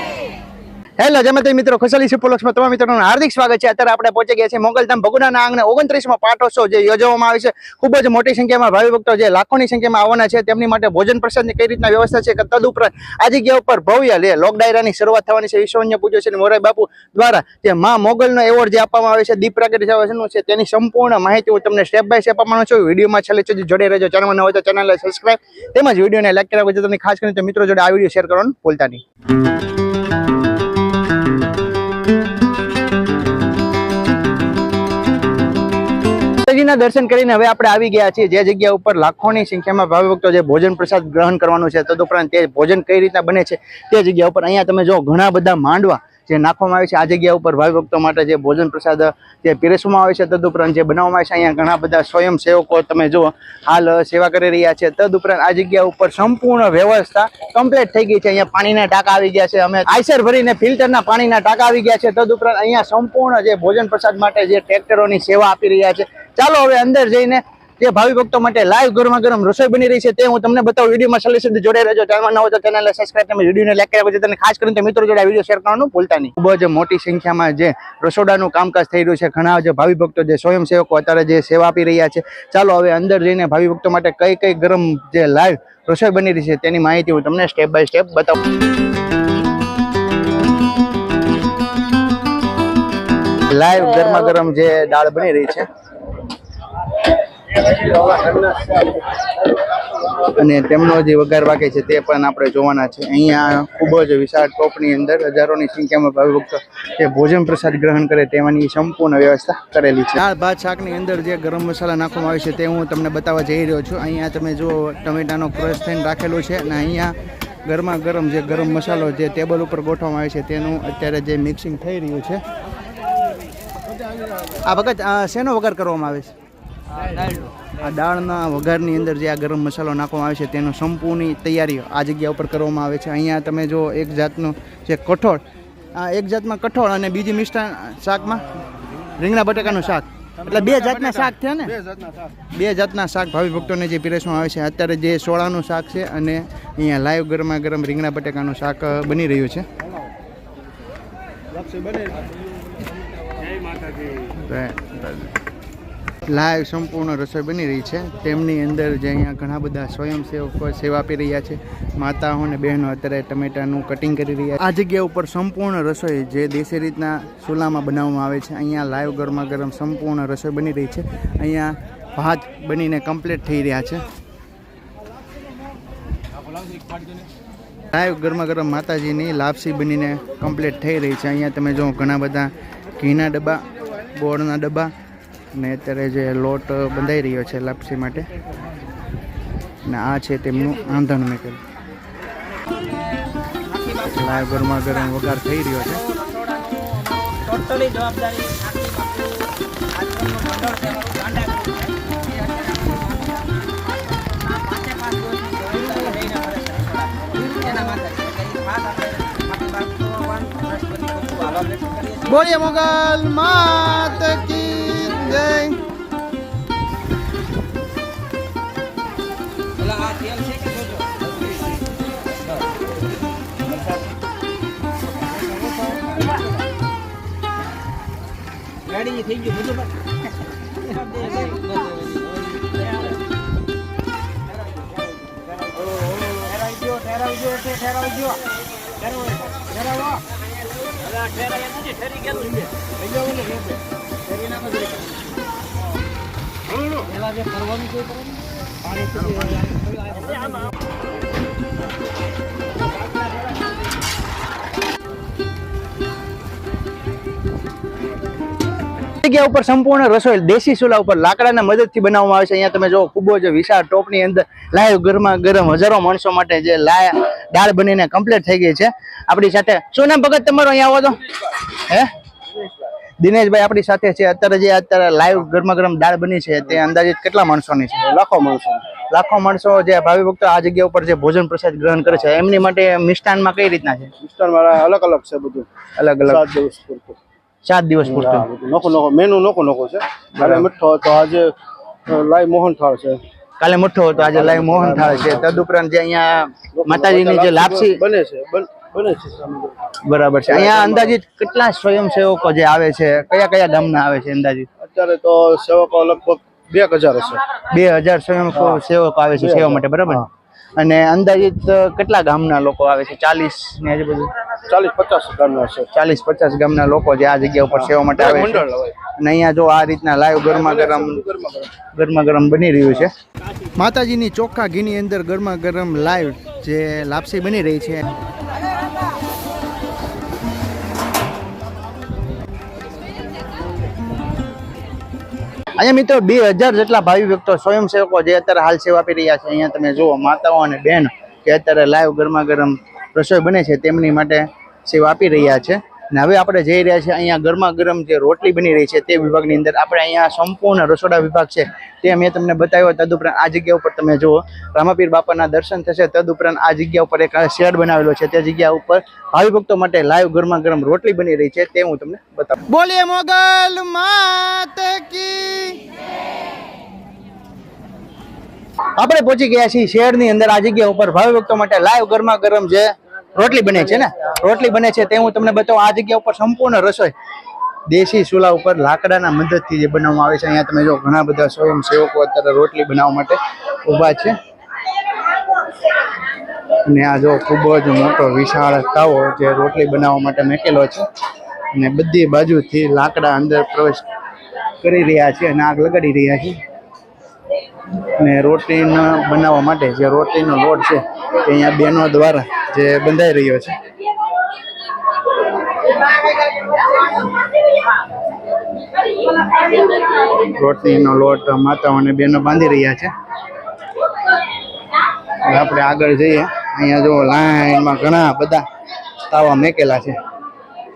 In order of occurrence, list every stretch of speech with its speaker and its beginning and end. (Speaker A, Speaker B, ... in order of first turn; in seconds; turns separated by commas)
Speaker A: 1.0-29.0, Speaker A: 36.4-88.4, Speaker A: 93.5-95.7, Speaker B: 98.1-98.7, Speaker A: 100.2-117.2, Speaker A: 117.7-122.4, Speaker A: 124.7-126.3, Speaker A: 127.8-135.4, Speaker A: 135.9-138.5, Speaker A: 139.2-141.8, Speaker A: 142.5-149.7, Speaker A: 154.3-155.3, Speaker A: 156.3-174.1, Speaker A: 177.9-184.9, Speaker A: 185.5-188.3, Speaker A: 189.8-191.6, Speaker C: 193.7-194.8, Speaker A: 193.9-196.1, Speaker C: 196.1-212.3, Speaker A: 212.2-215.8, Speaker C: 219.8-221.1, Speaker C: 228.9-229.9, Speaker C: 231.0-232.2, Speaker C: 236.7-238.3, Speaker A: 259.2-272.1, Speaker A: 273.2-278.0, Speaker B: 278.1-278.9, Speaker A: 279.1-284.1, Speaker B: 284.2-285.7, Speaker A: 286.0-286.4, Speaker B: 286.3-287.2, Speaker A: 287.6-288.5, Speaker B: 288.0-291.6, Speaker B: 292.1-293.2, Speaker A: 293.6-298.0, Speaker B: 294.2-295.6, Speaker B: 296.8-299.8, Speaker A: 300.0-304.7, Speaker B: 300.5-301.2, Speaker B: 304.8-307.4, Speaker A: 307.6-314.3, Speaker B: 309.4-310.1, Speaker B: 314.7-315.9, Speaker A: 315.9-318.7, Speaker B: 317.9-318.9, Speaker A: 319.2-321.2, Speaker B: 320.5-321.7, Speaker A: 321.9-323.1, Speaker A: 323.8-328.1, Speaker A: 335.8-365.8, Speaker A: 369.0-377.1, Speaker A: 377.9-384.4, Speaker A: 386.8-391.1, Speaker A: 391.7-394.1, Speaker A: 394.8-396.6, Speaker A: 398.0-403.8, Speaker A: 409.3-413.1, Speaker A: 415.3-418.7, Speaker A: 419.2-420.2